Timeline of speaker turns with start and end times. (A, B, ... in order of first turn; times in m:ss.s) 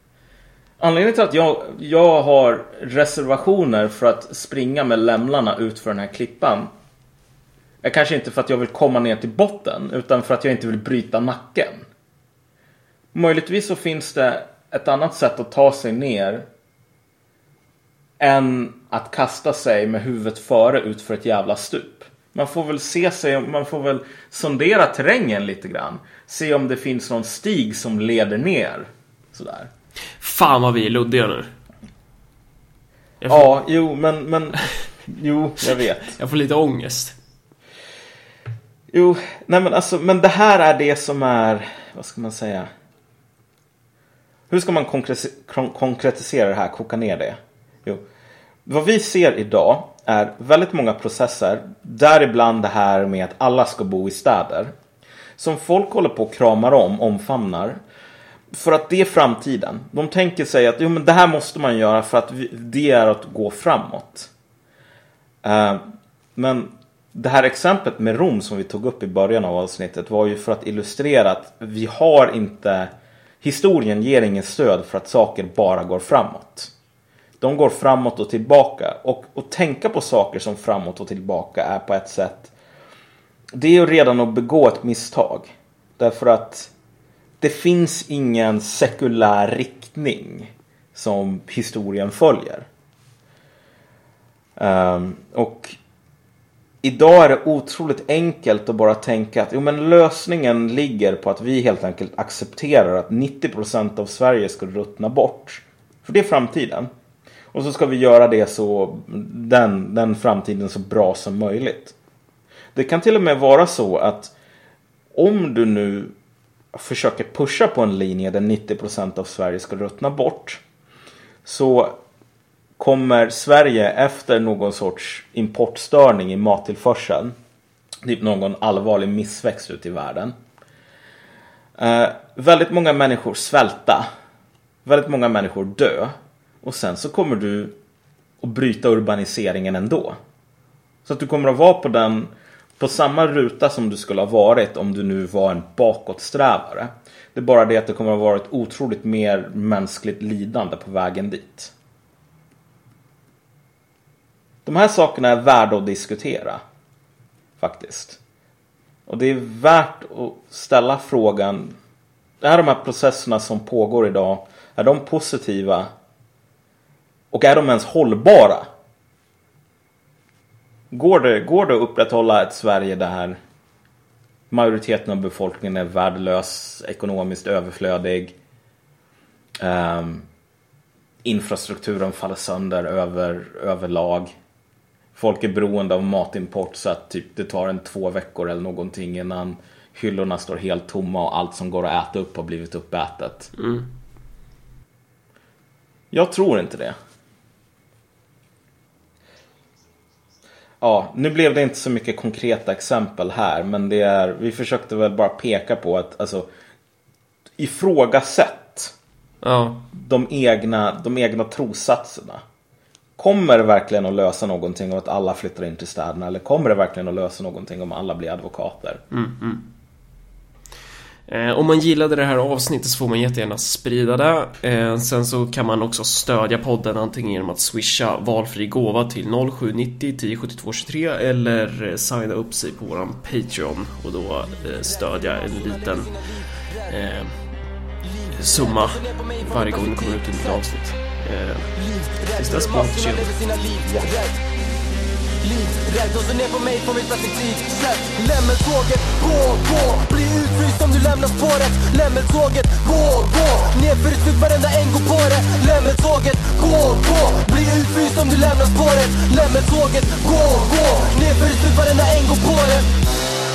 0:00.8-0:06.7 A
0:07.8-0:11.8 A
0:13.1-0:16.5 A
0:18.2-0:29.7 A
0:30.2-0:31.5 B
0:33.2-0:33.5 B
0:33.3-0:36.2 A
0:35.7-0:37.2 B
0:38.9-0:42.7 A
0:44.5-0:48.0 A
0:48.6-0:54.7 A
0:55.4-0:57.8 A
0:58.5-1:04.3 A
1:05.4-1:05.8 A
1:06.4-1:12.9 A
1:13.4-1:16.7 A
1:17.4-1:22.5 A
1:23.5-1:26.7 A
1:27.4-1:32.6 A
1:34.6-1:35.8 A
1:36.8-1:46.9 A
1:47.5-1:51.9 A
1:52.7-1:54.3 A
1:55.1-1:56.1 A
1:56.7-2:00.6 A
2:01.4-2:02.0 A
2:02.8-2:07.3 A
2:08.0-2:10.3 A
2:11.8-2:14.1 A
2:14.8-2:17.7 A
2:18.4-2:20.2 A
2:21.0-2:31.7 A
2:34.6-2:36.6 A
2:37.6-2:38.2 A
2:39.1-2:41.8 A
2:42.4-2:45.9 A
2:47.3-2:48.6 A
2:50.9-2:53.4 A
2:54.5-2:58.3 A
2:59.6-3:00.2 A
3:01.2-3:04.3 A
3:05.1-3:13.5 A
3:13.6-3:13.9 B
3:16.1-3:17.0 A
3:20.8-3:26.5 A
3:27.6-3:28.9 A
3:29.4-3:29.9 B
3:29.9-3:32.4 A
3:33.2-3:39.0 A
3:39.1-3:39.6 B
3:41.3-3:56.1 B
3:54.6-3:57.1 C
3:56.9-3:57.3 B
3:58.0-4:01.0 C
3:58.3-4:01.7 B
4:01.7-4:04.4 C
4:02.4-4:03.3 B
4:05.4-4:22.9 C